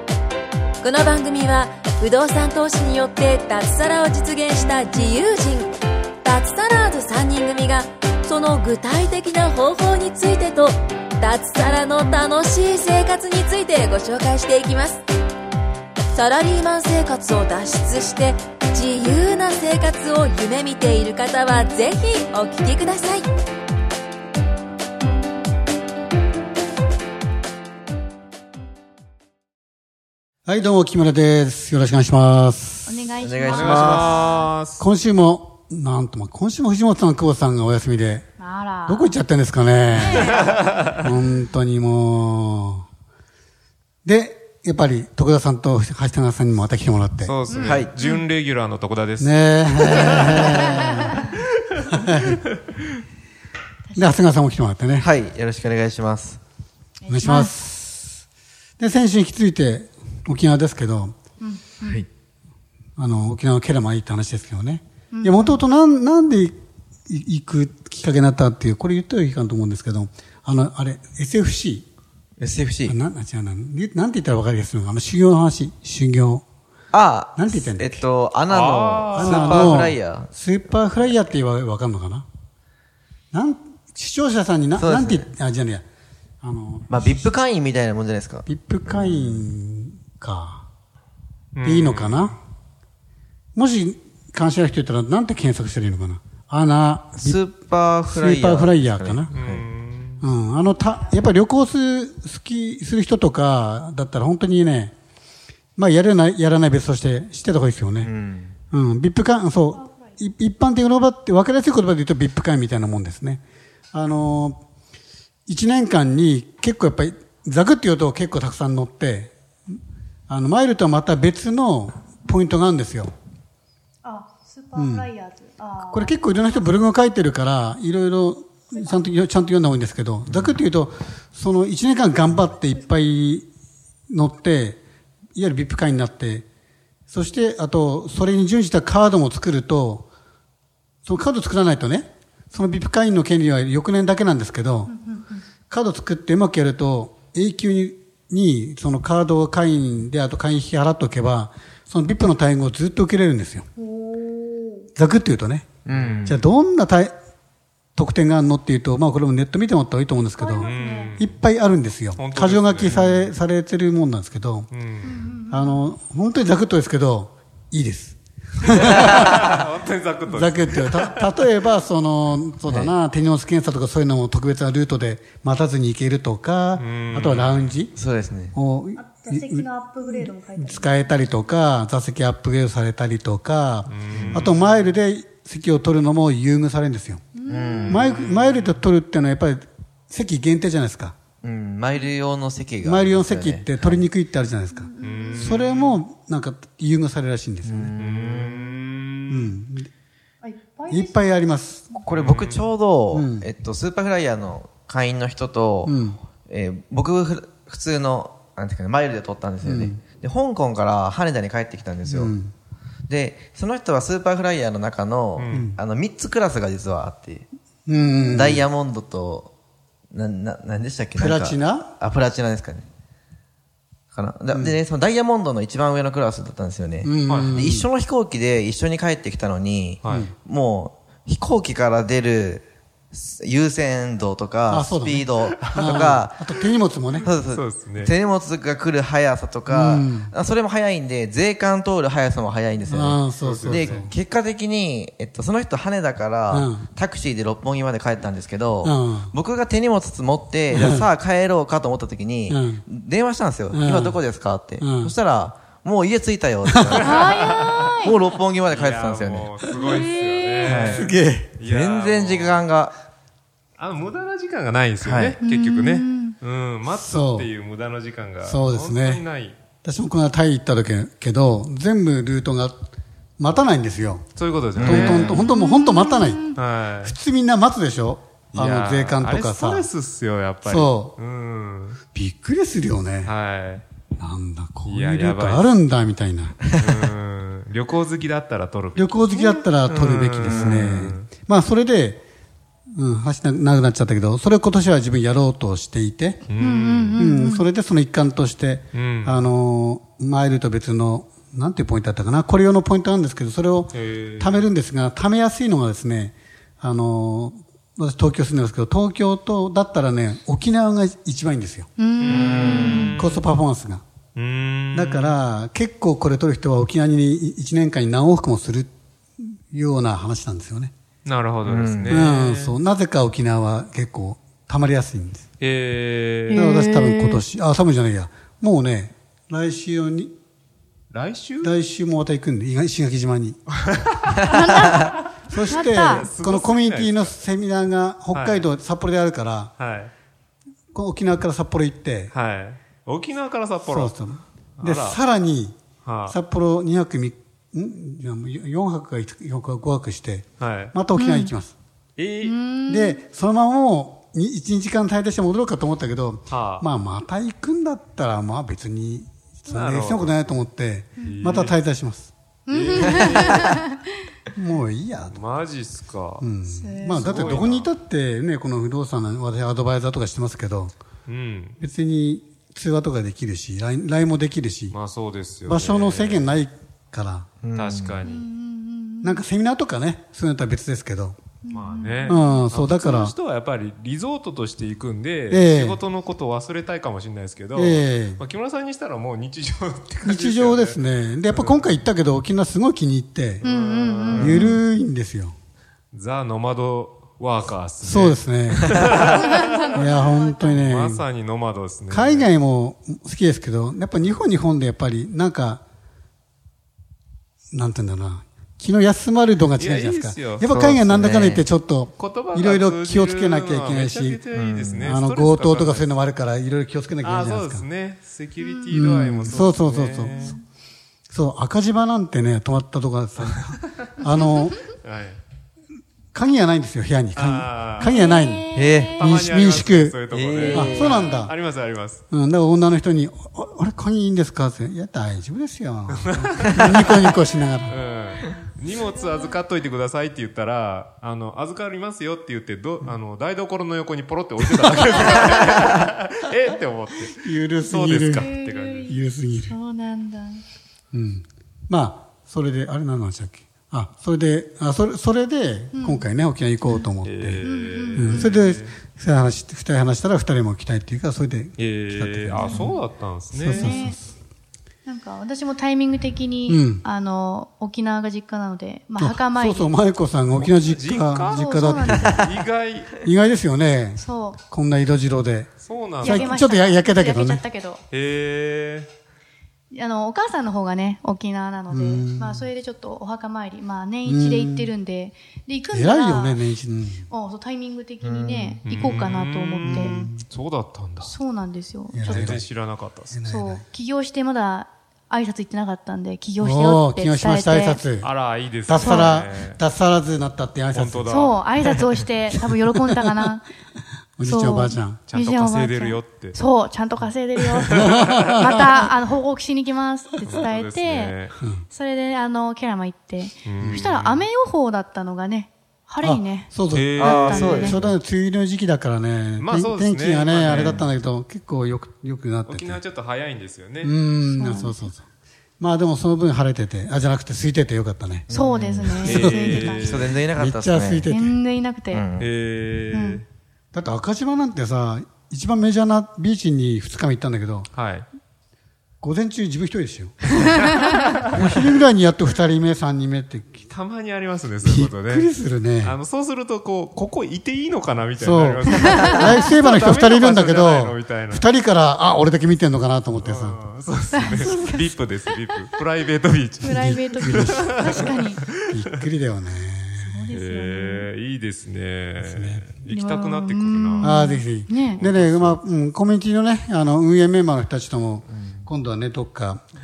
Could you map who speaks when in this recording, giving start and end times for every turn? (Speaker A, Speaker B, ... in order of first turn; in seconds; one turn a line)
Speaker A: 0.8-15.0
Speaker A: 16.1-23.3
Speaker B: 30.4-33.0
Speaker C: 32.9-34.5
Speaker D: 33.2-34.3
Speaker E: 33.5-34.9
Speaker B: 34.8-38.2
Speaker C: 38.4-39.1
Speaker B: 38.9-42.9
Speaker C: 39.9-40.6
Speaker E: 40.4-40.9
Speaker B: 44.0-47.4
Speaker E: 47.2-50.8
Speaker C: 47.5-48.2
Speaker D: 47.6-47.9
Speaker B: 49.2-51.3
Speaker C: 49.9-51.3
Speaker B: 51.9-52.4
Speaker C: 53.9-54.4
Speaker B: 54.0-55.1
Speaker D: 55.0-56.4
Speaker C: 57.0-57.6
Speaker B: 57.1-58.0
Speaker B: 58.8-61.1
Speaker C: 61.4-62.0
Speaker D: 61.8-62.1
Speaker B: 63.0-66.5
Speaker C: 65.1-65.6
Speaker B: 67.1-71.8
Speaker D: 72.4-73.0
Speaker B: 72.8-76.4
Speaker D: 76.9-80.3
Speaker B: 77.3-78.0
Speaker E: 78.5-79.9
Speaker B: 79.1-82.2
Speaker B: 83.3-85.8
Speaker D: 84.8-85.3
Speaker B: 86.4-87.3
Speaker D: 86.9-89.4
Speaker B: 88.5-90.7
Speaker E: 91.5-92.3
Speaker B: 91.6-92.4
Speaker B: 93.5-97.4
Speaker D: 97.2-99.6
Speaker B: 98.1-99.3
Speaker E: 99.3-100.2
Speaker B: 100.2-104.9
Speaker B: 105.8-108.1
Speaker D: 108.0-108.5
Speaker B: 108.7-114.6
Speaker B: 115.5-119.3
Speaker B: 120.3-123.1
Speaker C: 124.0-126.7
Speaker B: 124.7-125.1
Speaker B: 125.8-133.5
Speaker B: 134.1-134.8
Speaker B: 135.3-136.4
Speaker B: 137.1-140.1
Speaker B: 141.0-144.9
Speaker C: 144.9-145.2
Speaker B: 145.7-153.7
Speaker C: 153.8-154.8
Speaker B: 154.9-155.7
Speaker D: 155.8-156.5
Speaker E: 155.9-156.4
Speaker B: 156.2-157.1
Speaker B: 157.9-164.7
Speaker C: 160.4-161.2
Speaker E: 160.6-161.3
Speaker E: 162.2-163.1
Speaker D: 162.9-163.3
Speaker E: 164.7-165.2
Speaker C: 165.0-165.9
Speaker B: 165.5-169.5
Speaker E: 168.8-171.3
Speaker B: 170.3-177.9
Speaker D: 172.7-172.9
Speaker E: 176.7-177.8
Speaker D: 177.9-178.6
Speaker B: 178.5-187.2
Speaker C: 179.0-181.0
Speaker E: 183.9-184.6
Speaker D: 184.1-184.5
Speaker C: 187.3-188.0
Speaker D: 187.5-188.1
Speaker B: 187.9-191.2
Speaker E: 188.1-188.8
Speaker D: 191.4-194.1
Speaker B: 192.8-197.9
Speaker C: 194.8-195.5
Speaker E: 195.0-196.0
Speaker D: 197.6-198.7
Speaker E: 197.9-199.5
Speaker B: 199.3-199.9
Speaker C: 200.4-202.0
Speaker B: 200.9-201.9
Speaker D: 202.0-205.9
Speaker E: 202.1-202.7
Speaker B: 203.1-203.5
Speaker B: 205.8-206.2
Speaker D: 206.5-212.3
Speaker B: 209.6-210.0
Speaker B: 212.1-212.5
Speaker D: 213.1-217.4
Speaker E: 215.3-215.7
Speaker B: 215.5-215.8
Speaker B: 217.9-218.7
Speaker D: 218.3-219.5
Speaker D: 220.1-222.9
Speaker B: 221.2-221.9
Speaker D: 224.1-236.4
Speaker B: 227.0-227.9
Speaker E: 227.3-227.6
Speaker E: 230.0-230.3
Speaker B: 230.1-230.3
Speaker B: 234.7-237.3
Speaker E: 235.7-236.1
Speaker D: 237.2-257.3
Speaker E: 237.5-238.1
Speaker B: 239.7-240.3
Speaker B: 242.9-244.1
Speaker E: 243.4-244.0
Speaker B: 246.5-246.9
Speaker B: 248.8-249.3
Speaker B: 250.7-251.0
Speaker B: 252.5-252.8
Speaker B: 253.7-254.2
Speaker B: 254.8-255.1
Speaker B: 256.6-257.2
Speaker E: 256.9-258.1
Speaker C: 257.0-258.2
Speaker D: 258.0-259.6
Speaker E: 258.6-262.7
Speaker C: 259.7-260.9
Speaker D: 260.6-261.1
Speaker B: 260.9-261.6
Speaker D: 261.6-262.9
Speaker E: 263.8-269.6
Speaker D: 265.0-265.4
Speaker C: 265.4-266.4
Speaker B: 266.9-267.5
Speaker B: 268.4-269.2
Speaker B: 269.8-272.8
Speaker B: 273.4-279.9
Speaker E: 274.3-275.5
Speaker D: 274.8-275.4
Speaker C: 275.3-276.6
Speaker E: 276.5-277.1
Speaker E: 278.5-282.0
Speaker B: 280.6-281.2
Speaker B: 282.1-283.3
Speaker E: 283.2-283.8
Speaker B: 284.2-286.7
Speaker E: 284.9-285.7
Speaker E: 286.7-289.2
Speaker B: 288.9-292.2
Speaker C: 289.3-289.6
Speaker E: 289.9-291.3
Speaker D: 290.4-291.0
Speaker B: 292.9-296.4
Speaker E: 296.5-297.2
Speaker C: 296.6-297.7
Speaker B: 297.2-311.9
Speaker E: 298.9-299.4
Speaker E: 303.9-304.6
Speaker C: 312.0-313.1
Speaker E: 312.2-313.5
Speaker D: 312.3-313.1
Speaker B: 313.1-314.0
Speaker E: 314.4-315.3
Speaker B: 314.9-320.9
Speaker E: 321.2-322.8
Speaker D: 321.6-322.2
Speaker B: 322.1-325.4
Speaker E: 325.6-326.6
Speaker C: 326.5-327.4
Speaker B: 326.5-330.3
Speaker E: 331.1-331.8
Speaker B: 331.6-333.6
Speaker E: 333.8-337.3
Speaker C: 334.4-336.3
Speaker B: 335.5-339.7
Speaker E: 338.3-338.6
Speaker E: 339.8-340.1
Speaker B: 340.9-342.3
Speaker E: 342.3-344.2
Speaker B: 343.8-351.7
Speaker E: 344.8-345.2
Speaker E: 346.0-346.4
Speaker E: 350.6-350.9
Speaker C: 351.1-351.5
Speaker E: 352.2-352.6
Speaker C: 352.4-353.2
Speaker B: 352.9-362.3
Speaker E: 356.5-356.9
Speaker E: 359.7-360.4
Speaker C: 361.2-361.6
Speaker E: 361.2-361.8
Speaker C: 362.7-364.1
Speaker E: 362.7-363.8
Speaker B: 364.5-365.4
Speaker E: 365.3-366.4
Speaker B: 366.4-370.9
Speaker C: 366.6-367.4
Speaker E: 367.2-367.9
Speaker E: 371.2-371.8
Speaker B: 371.8-374.9
Speaker E: 374.9-376.6
Speaker B: 375.7-377.5
Speaker D: 377.6-378.2
Speaker E: 377.7-378.4
Speaker C: 378.2-379.4
Speaker B: 379.2-381.4
Speaker C: 381.6-382.6
Speaker E: 381.7-392.0
Speaker B: 382.2-383.3
Speaker B: 385.5-386.0
Speaker B: 387.7-388.4
Speaker B: 390.2-393.6
Speaker E: 393.6-394.8
Speaker C: 393.6-394.8
Speaker B: 394.3-395.5
Speaker E: 396.1-402.5
Speaker B: 398.0-401.2
Speaker C: 399.3-400.7
Speaker B: 402.1-405.8
Speaker B: 407.7-414.4
Speaker E: 409.8-411.1
Speaker D: 411.0-411.7
Speaker E: 412.1-416.1
Speaker D: 414.5-415.1
Speaker B: 415.0-417.9
Speaker E: 417.2-420.5
Speaker C: 418.6-418.9
Speaker B: 418.9-420.6
Speaker C: 420.3-420.6
Speaker B: 421.3-424.8
Speaker E: 425.0-425.4
Speaker B: 426.3-431.5
Speaker E: 427.3-428.2
Speaker C: 428.0-429.3
Speaker D: 428.7-429.2
Speaker E: 429.1-432.2
Speaker D: 430.3-431.3
Speaker B: 432.3-437.9
Speaker E: 436.1-437.4
Speaker E: 437.9-449.2
Speaker B: 447.4-448.5
Speaker C: 448.3-450.6
Speaker B: 449.1-449.7
Speaker B: 451.1-463.0
Speaker C: 455.9-456.2
Speaker E: 457.2-458.9
Speaker C: 457.6-458.6
Speaker E: 461.8-464.0
Speaker C: 462.6-462.9
Speaker B: 463.5-464.2
Speaker C: 463.6-464.2
Speaker C: 465.1-469.9
Speaker B: 466.7-467.0
Speaker B: 469.2-472.5
Speaker E: 470.6-473.2
Speaker C: 471.5-472.5
Speaker B: 473.2-475.7
Speaker C: 474.1-474.6
Speaker E: 475.8-476.6
Speaker B: 476.2-477.6
Speaker C: 476.2-478.0
Speaker E: 478.1-479.1
Speaker C: 479.9-486.6
Speaker B: 481.9-482.7
Speaker B: 484.2-484.9
Speaker B: 485.9-487.2
Speaker C: 487.3-490.3
Speaker D: 488.2-488.8
Speaker E: 488.8-491.3
Speaker B: 489.8-490.4
Speaker C: 491.2-492.5
Speaker B: 492.1-492.7
Speaker E: 492.2-493.3
Speaker B: 493.3-493.8
Speaker C: 493.4-498.0
Speaker B: 496.6-498.3
Speaker E: 498.2-499.8
Speaker B: 498.9-501.5
Speaker C: 499.0-499.4
Speaker E: 500.9-502.1
Speaker C: 501.3-503.6
Speaker B: 502.5-503.4
Speaker B: 504.4-505.2
Speaker C: 504.4-511.4
Speaker E: 505.3-506.6
Speaker E: 507.6-508.9
Speaker B: 507.9-509.0
Speaker E: 510.5-511.6
Speaker C: 511.9-518.0
Speaker E: 513.6-514.4
Speaker B: 513.8-514.1
Speaker B: 516.2-523.0
Speaker E: 516.9-517.9
Speaker D: 517.2-518.1
Speaker E: 519.6-521.0
Speaker D: 520.6-521.0
Speaker E: 522.6-524.1
Speaker B: 524.0-525.2
Speaker C: 524.5-525.1
Speaker B: 525.8-528.5
Speaker D: 528.5-529.4
Speaker C: 528.5-530.4
Speaker B: 529.2-531.6
Speaker E: 529.2-530.3
Speaker D: 530.0-531.3
Speaker C: 531.3-532.2
Speaker D: 532.1-532.5
Speaker E: 532.4-533.4
Speaker C: 533.1-533.4
Speaker B: 533.9-537.9
Speaker E: 537.9-538.2
Speaker B: 539.2-540.8
Speaker E: 540.8-541.7
Speaker B: 541.4-543.8
Speaker E: 543.9-545.5
Speaker B: 544.8-546.2
Speaker E: 546.0-551.7
Speaker B: 548.4-553.8
Speaker C: 549.0-549.4
Speaker E: 553.4-558.3
Speaker C: 554.3-555.0
Speaker C: 556.8-558.6
Speaker B: 556.9-558.3
Speaker B: 558.9-560.5
Speaker C: 560.2-561.3
Speaker E: 560.5-564.5
Speaker B: 562.4-562.9
Speaker C: 563.1-565.2
Speaker B: 564.2-569.8
Speaker E: 565.1-565.8